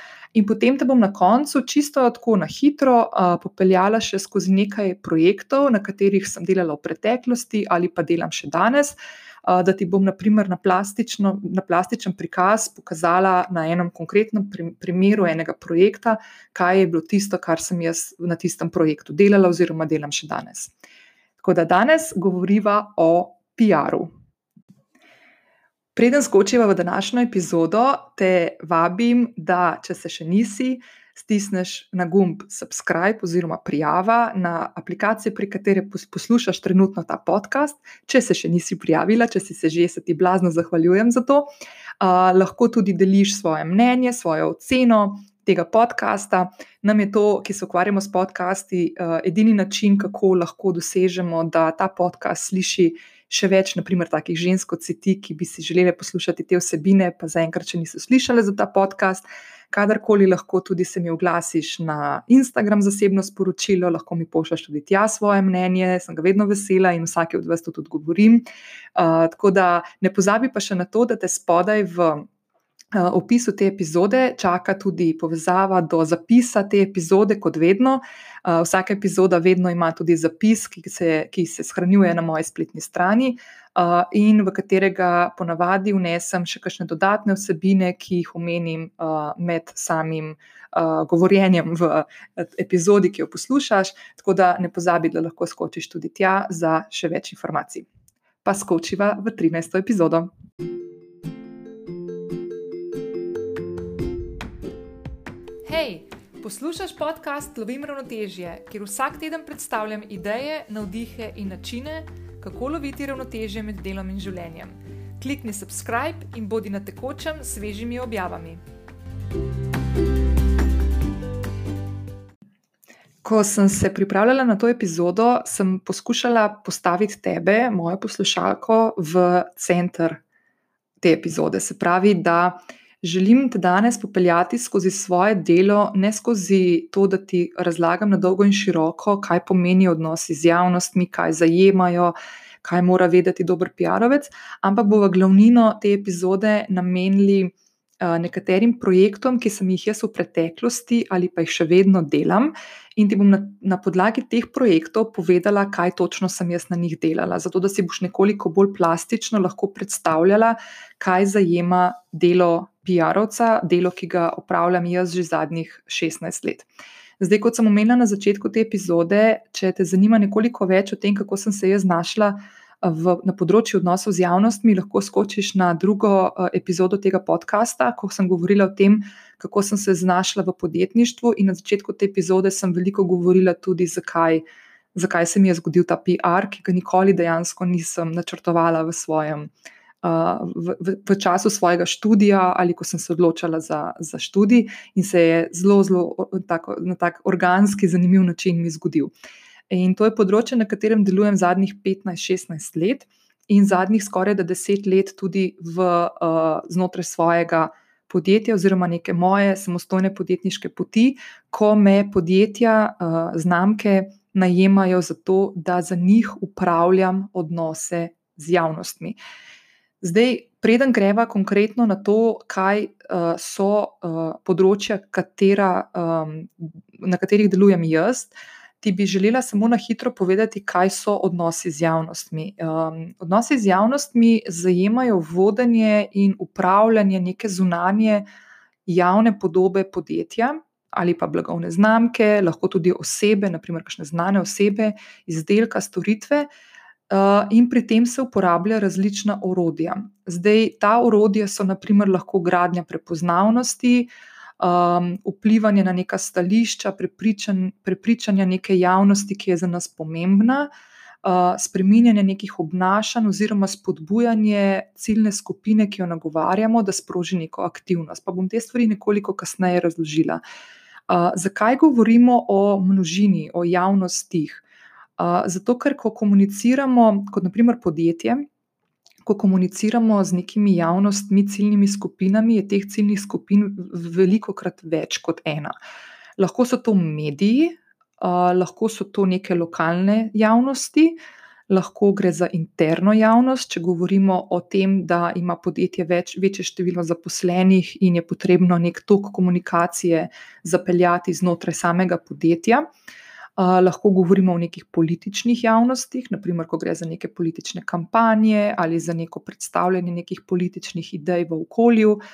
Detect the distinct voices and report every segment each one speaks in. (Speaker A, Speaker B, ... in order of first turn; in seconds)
Speaker A: 0.3-20.7, 21.4-24.1, 25.9-41.5, 42.0-68.4, 69.0-72.3, 72.9-97.8, 98.4-100.3, 105.7-118.6, 123.2-130.2, 131.0-166.7, 167.2-184.4, 184.9-189.5, 190.0-199.1, 199.7-219.2, 220.0-238.2, 238.8-246.5, 247.1-260.7, 261.2-270.4, 271.1-274.6, 275.2-278.4, 279.2-285.7, 286.4-291.1, 291.7-302.9, 303.6-312.2